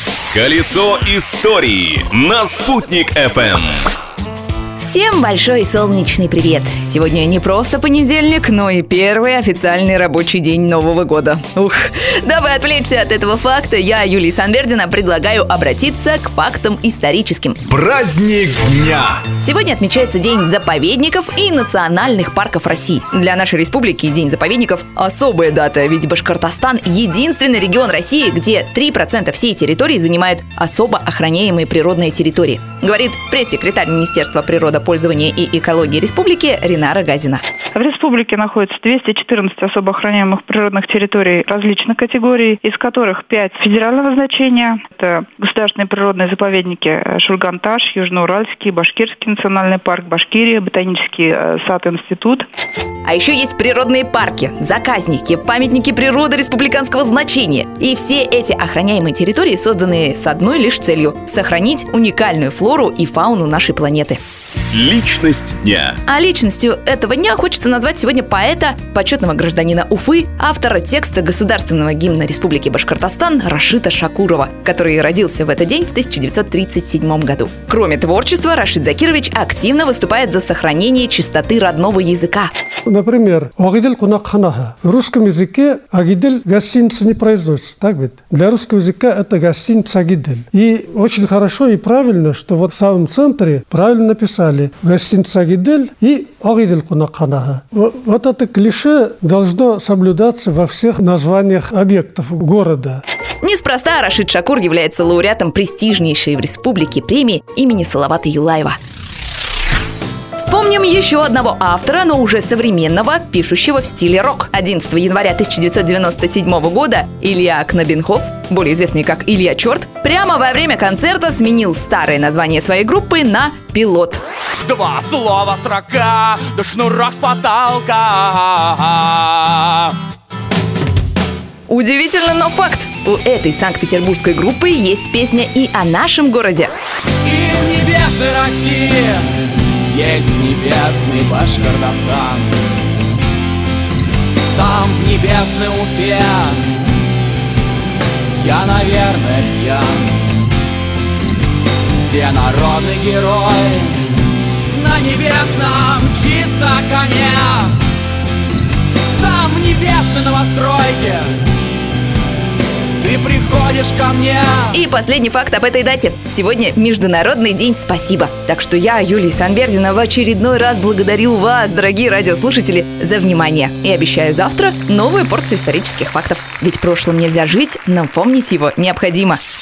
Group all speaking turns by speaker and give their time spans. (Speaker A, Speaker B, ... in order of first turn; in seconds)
Speaker A: 0.3-3.9, 17.7-19.2, 64.7-66.0
Speaker B: 4.8-17.6, 19.4-37.4, 53.0-64.2, 66.1-82.5, 103.4-108.8, 110.4-124.2, 131.7-136.7, 164.7-179.4
Speaker C: 37.7-52.5
Speaker D: 82.9-103.0
Speaker E: 124.6-129.9, 137.2-142.6, 144.5-146.9, 148.3-150.4, 152.0-157.8, 159.2-161.4, 163.0-164.8